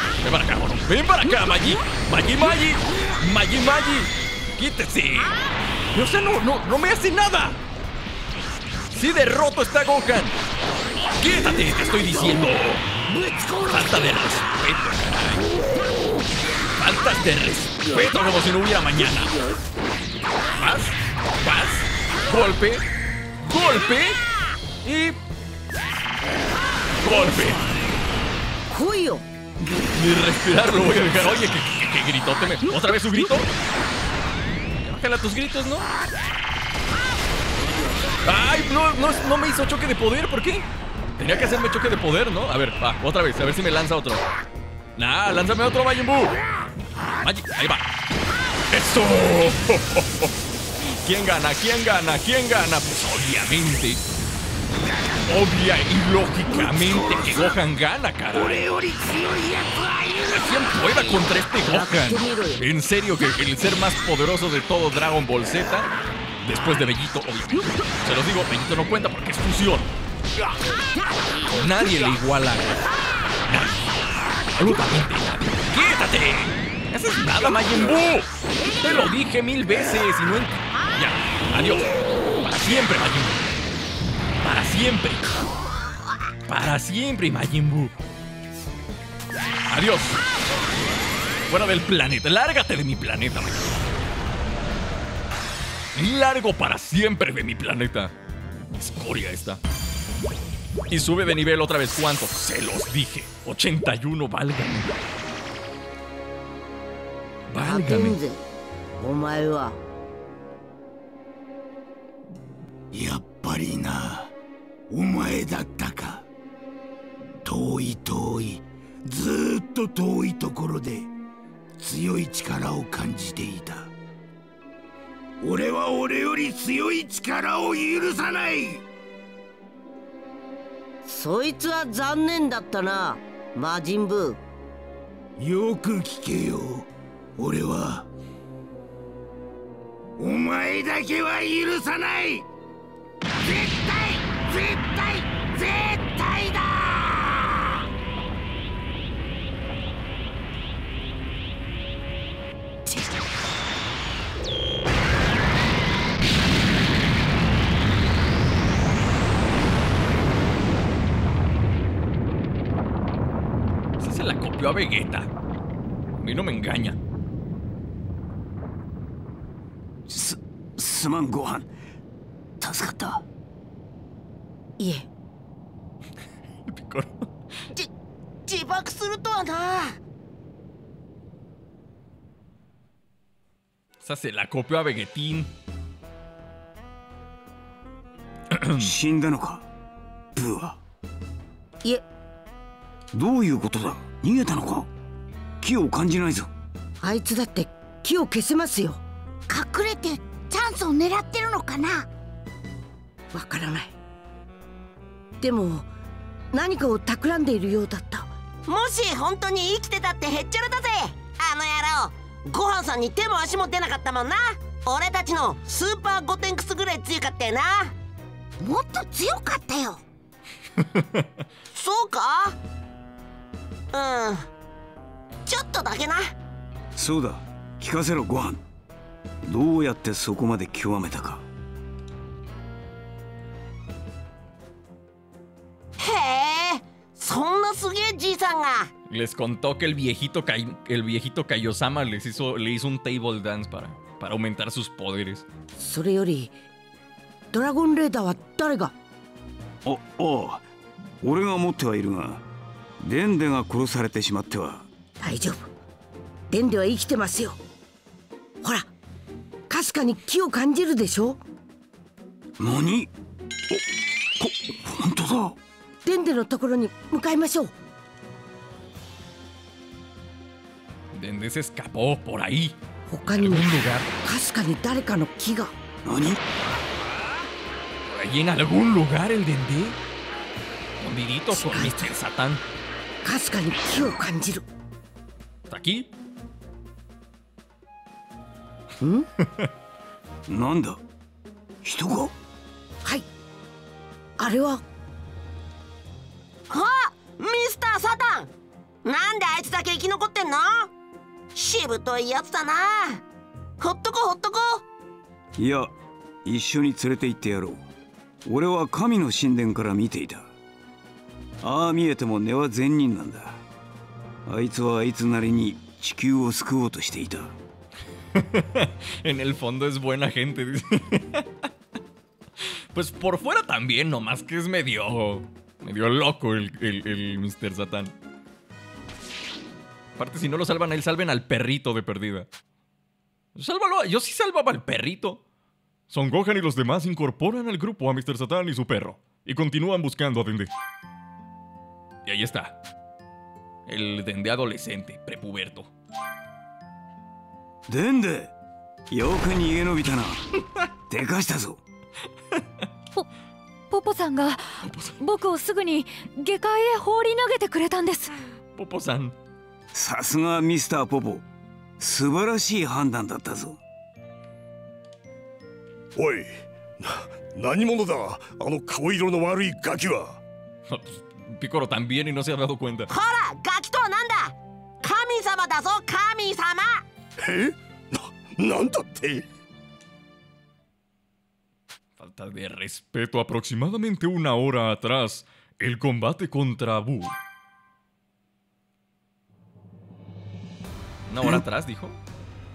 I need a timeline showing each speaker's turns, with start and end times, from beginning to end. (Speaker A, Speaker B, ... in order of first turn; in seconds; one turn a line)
Speaker A: 0.2-5.3
Speaker A: 6.0-7.6
Speaker A: 8.9-10.3
Speaker A: 11.2-12.8
Speaker A: 13.6-15.5
Speaker A: 16.8-19.3
Speaker A: 20.6-22.9
Speaker A: 23.4-24.2
Speaker A: 24.8-25.2
Speaker A: 27.0-27.6
Speaker B: 28.7-29.2
Speaker A: 29.9-33.5
Speaker A: 34.8-35.9
Speaker A: 38.2-40.7
Speaker A: 41.2-44.2
Speaker A: 45.0-46.4
Speaker A: 47.2-47.9
Speaker A: 48.7-50.3
Speaker A: 51.0-54.0
Speaker A: 55.3-58.6
Speaker C: 56.5-57.6
Speaker C: 58.3-60.8
Speaker A: 60.3-65.9
Speaker B: 61.6-62.6
Speaker A: 66.4-69.9
Speaker A: 71.5-72.8
Speaker A: 73.5-73.8
Speaker A: 74.5-83.4
Speaker A: 84.4-85.2
Speaker A: 86.5-87.9
Speaker A: 89.7-90.2
Speaker A: 91.5-93.8
Speaker A: 96.0-98.1
Speaker A: 98.8-99.6
Speaker A: 100.9-105.0
Speaker A: 107.5-108.2
Speaker B: 107.5-108.4
Speaker B: 109.0-109.8
Speaker C: 113.0-114.2
Speaker C: 114.9-116.2
Speaker C: 117.5-121.1
Speaker C: 121.8-123.9
Speaker C: 125.4-128.8
Speaker B: 131.1-134.4
Speaker C: 135.4-136.9
Speaker C: 137.4-138.0
Speaker C: 140.2-142.4
Speaker C: 143.4-147.6
Speaker A: 164.0-165.3
Speaker A: 166.2-167.0
Speaker D: 170.1-171.7
Speaker D: 172.6-173.2
Speaker B: 174.8-175.1
Speaker A: 176.7-177.3
Speaker E: 178.5-180.0
Speaker A: 184.0-185.5
Speaker A: 188.5-188.9
Speaker D: 188.8-189.7
Speaker D: 190.4-190.8
Speaker D: 193.1-194.9
Speaker D: 195.6-196.5
Speaker B: 197.0-199.0
Speaker F: 199.5-202.1
Speaker B: 203.3-203.9
Speaker B: 205.4-205.9
Speaker B: 206.5-208.3
Speaker E: 208.7-217.9
Speaker B: 218.6-220.0
Speaker A: 220.9-221.3
Speaker E: 221.7-222.6
Speaker E: 223.9-224.5
Speaker E: 225.5-226.3
Speaker D: 227.0-228.6
Speaker D: 229.4-231.4
Speaker E: 236.0-238.9
Speaker A: 239.1-245.5
Speaker B: 245.8-246.5
Speaker B: 247.5-248.9
Speaker D: 249.8-250.6
Speaker D: 251.2-252.4
Speaker D: 253.0-254.9
Speaker B: 255.2-255.7
Speaker B: 256.5-257.6
Speaker B: 258.6-258.9
Speaker B: 259.7-261.4
Speaker D: 262.6-263.1
Speaker D: 264.4-265.6
Speaker B: 266.1-267.7
Speaker A: 271.1-272.8
Speaker B: 273.1-275.7
Speaker A: 273.4-274.1
Speaker D: 276.1-276.4
Speaker A: 278.1-280.0
Speaker A: 281.0-282.6
Speaker B: 281.5-282.1
Speaker B: 283.2-284.6
Speaker A: 285.7-286.1
Speaker B: 289.0-289.3
Speaker D: 290.5-291.0
Speaker D: 291.8-292.3
Speaker B: 294.4-294.8
Speaker E: 296.7-298.5
Speaker E: 299.0-300.9
Speaker E: 301.6-303.2
Speaker E: 303.8-304.8
Speaker D: 305.6-305.9
Speaker D: 306.4-307.8
Speaker D: 308.4-310.5
Speaker D: 311.6-313.6
Speaker D: 314.5-317.5
Speaker A: 318.4-321.5
Speaker A: 322.9-328.1
Speaker A: 330.2-332.5
Speaker A: 333.6-335.4
Speaker A: 336.1-340.7
Speaker A: 342.3-342.8
Speaker A: 343.9-345.9
Speaker D: 347.9-348.5
Speaker D: 349.1-350.5
Speaker D: 351.1-351.8
Speaker G: 353.9-358.4
Speaker A: 354.8-355.2
Speaker A: 358.8-359.3
Speaker D: 359.9-361.4
Speaker D: 362.0-363.8
Speaker H: 366.2-370.4
Speaker A: 370.9-373.1
Speaker E: 373.1-377.0
Speaker H: 377.5-379.4
Speaker A: 382.2-387.4
Speaker A: 391.3-392.2